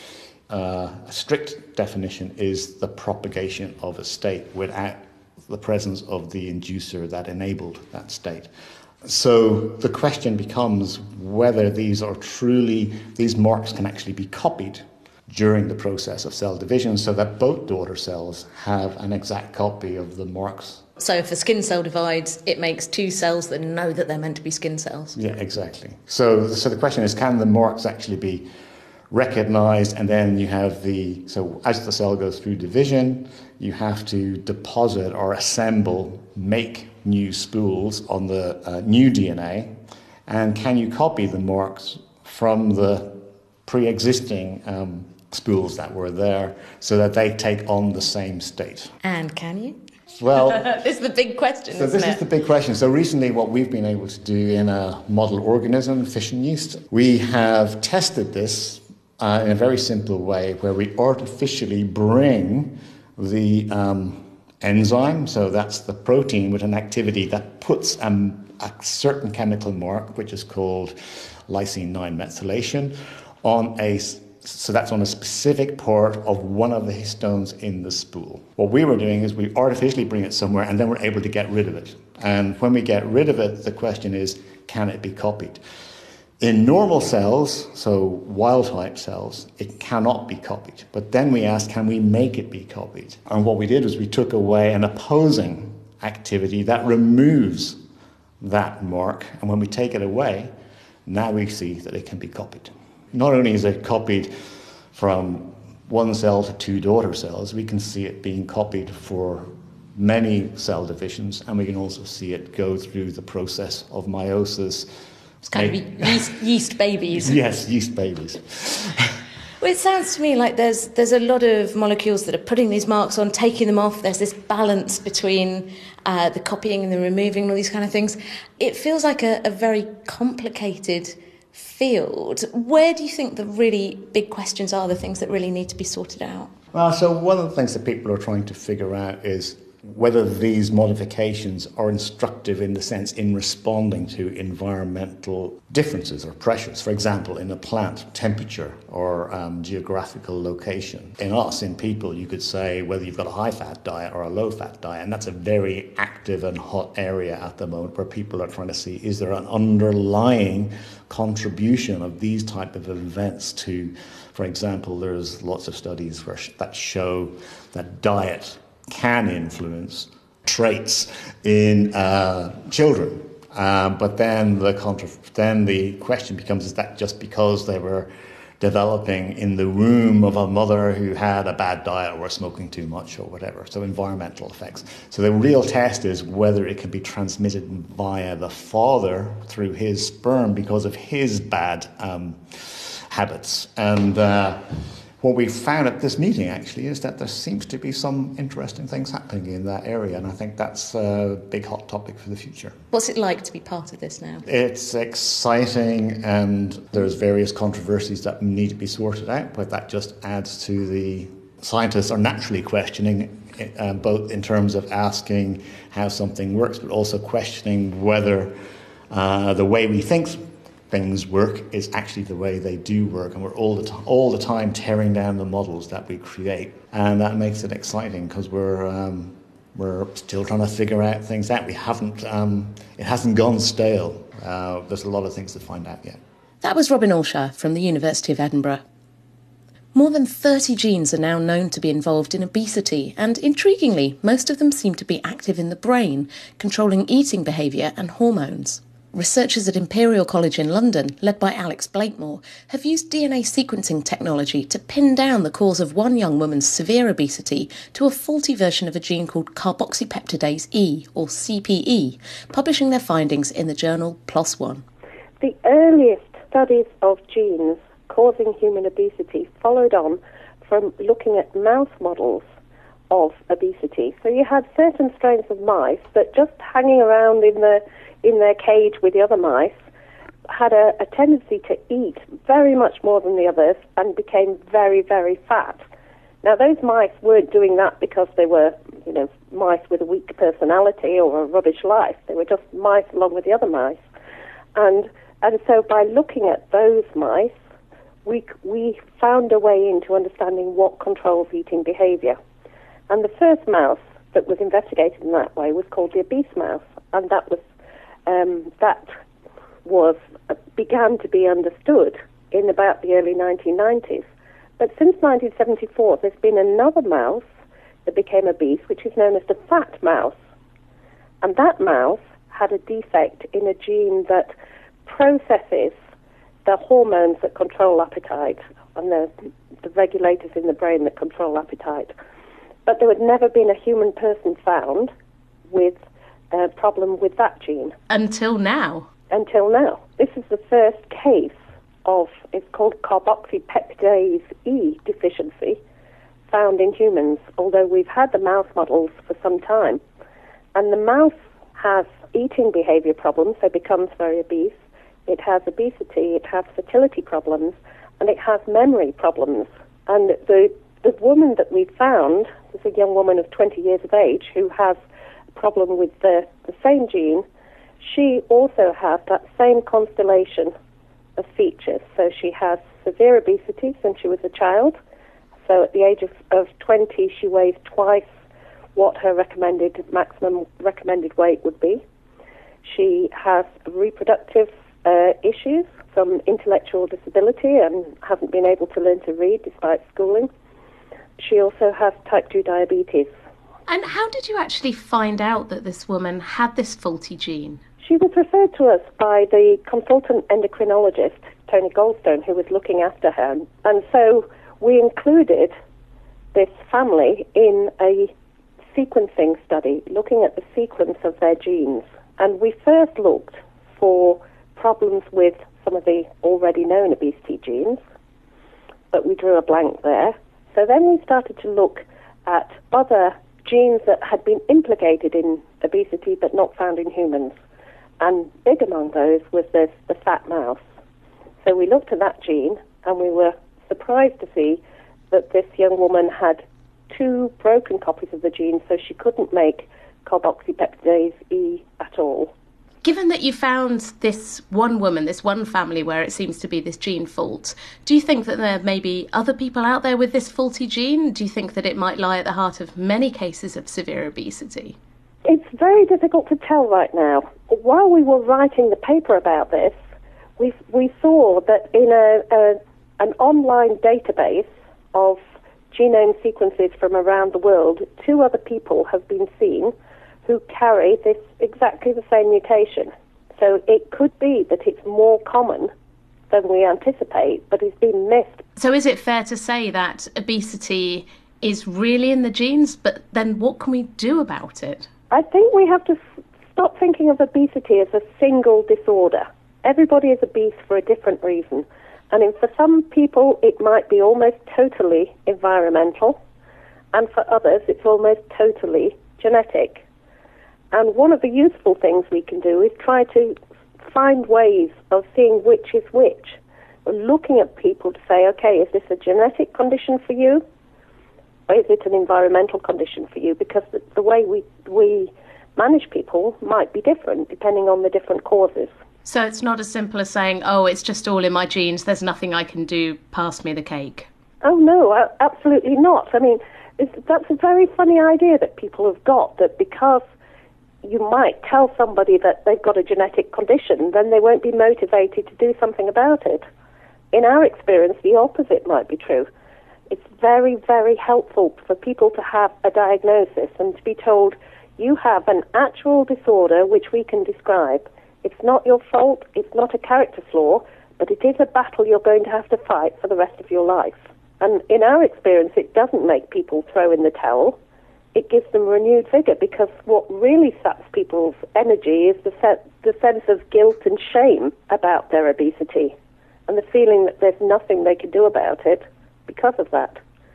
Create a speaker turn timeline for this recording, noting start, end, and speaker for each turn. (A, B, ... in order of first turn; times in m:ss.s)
0:00.5-0:08.5 A
0:09.0-0:20.8 A
0:21.0-0:25.2 B
0:25.1-0:28.5 A
0:29.1-0:39.8 A
0:40.3-0:49.0 A
0:49.0-0:49.8 B
0:50.2-0:50.7 A
0:50.4-0:52.2 B
0:51.7-1:25.6 A
1:26.4-1:37.8 A
1:38.4-1:40.5 A
1:41.0-1:44.3 A
1:44.9-1:54.9 A
1:55.4-1:57.4 B
1:55.5-1:56.3 A
1:57.1-1:59.1 A
1:59.6-2:16.5 B
2:16.7-3:14.6 A
3:15.2-3:22.8 A
3:22.9-3:24.4 B
3:24.4-3:38.6 A
3:39.1-3:56.2 A
3:56.6-3:58.8 B
3:59.9-4:24.8 B
4:25.4-4:32.4 C
4:33.1-4:39.7 C
4:40.5-4:45.8 C
4:46.4-4:54.0 C
4:54.7-4:57.5 C
4:58.2-5:02.4 C
5:03.1-5:07.6 C
5:08.2-5:09.1 C
5:09.8-5:14.2 C
5:14.8-5:17.4 C
5:18.0-5:20.3 C
5:21.4-5:24.5 C
5:25.0-5:25.9 C
5:26.6-5:29.3 C
5:29.8-5:32.1 C
5:32.8-5:35.1 C
5:35.7-5:36.0 C
5:36.5-5:37.9 C
5:38.1-5:39.1 B
5:39.3-5:45.8 C
5:46.5-5:50.0 C
5:50.7-5:54.7 C
5:55.3-6:05.0 C
6:05.5-6:07.4 C
6:08.0-6:10.7 C
6:11.4-6:15.0 C
6:15.6-6:18.2 C
6:18.9-6:22.0 C
6:22.8-6:30.5 C
6:31.4-6:33.3 C
6:33.9-6:37.8 B
6:38.0-6:45.7 C
6:46.5-6:48.3 C
6:48.9-6:58.0 C
6:59.1-7:07.5 C
7:08.2-7:10.8 C
7:11.6-7:22.5 C
7:23.0-7:35.0 B
7:35.4-7:39.9 C
7:40.6-7:45.4 C
7:45.9-7:49.9 C
7:50.4-7:55.9 C
7:56.5-7:58.6 C
7:58.8-8:05.1 B
8:05.3-8:06.2 C
8:06.7-8:16.4 C
8:17.1-8:20.0 C
8:20.9-8:23.5 C
8:24.1-8:30.6 C
8:31.7-8:38.9 C
8:39.2-8:44.3 B
8:44.6-8:50.2 C
8:51.0-8:56.6 C
8:57.3-8:59.5 C
9:00.1-9:17.8 C
9:18.3-9:26.1 C
9:26.7-9:30.2 C